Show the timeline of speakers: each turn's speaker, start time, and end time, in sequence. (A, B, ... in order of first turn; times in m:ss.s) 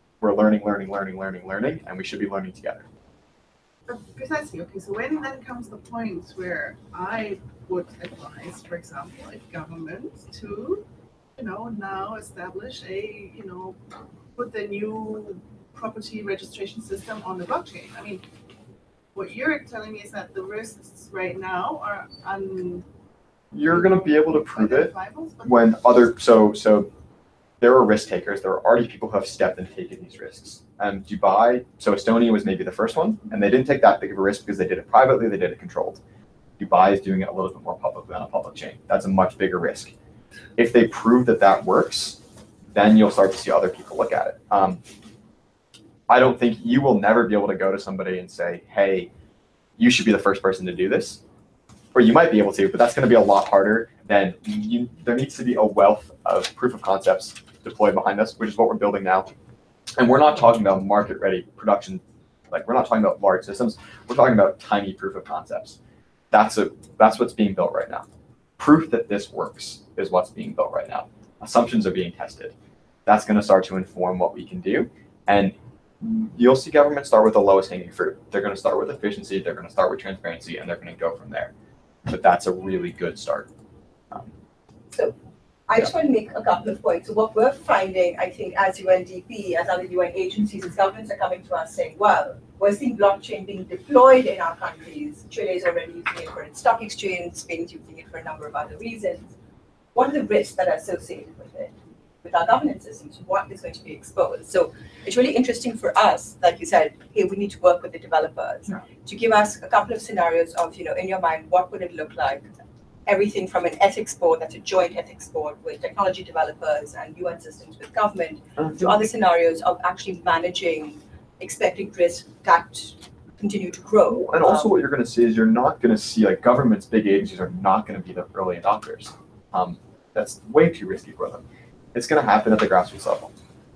0:00.2-0:02.9 A
0:03.9-0:10.8 B
0:11.4-0:13.8 B
0:14.4-0:18.2 B
0:19.2-0:22.8 B
0:23.5-0:26.9 A
0:23.7-0:26.1 B
0:27.6-0:36.0 A
0:36.6-0:39.9 A
0:40.6-0:42.2 A
0:42.7-0:44.8 A
0:46.1-0:49.1 A
0:49.8-0:51.2 A
0:51.9-0:59.3 A
1:00.0-1:05.8 A
1:06.3-1:08.1 A
1:08.6-1:12.5 A
1:13.1-1:21.5 A
1:22.1-1:23.5 A
1:25.7-1:39.2 C
1:39.9-1:52.5 C
1:53.1-2:04.7 C
1:58.6-1:59.0 A
2:04.1-2:13.3 A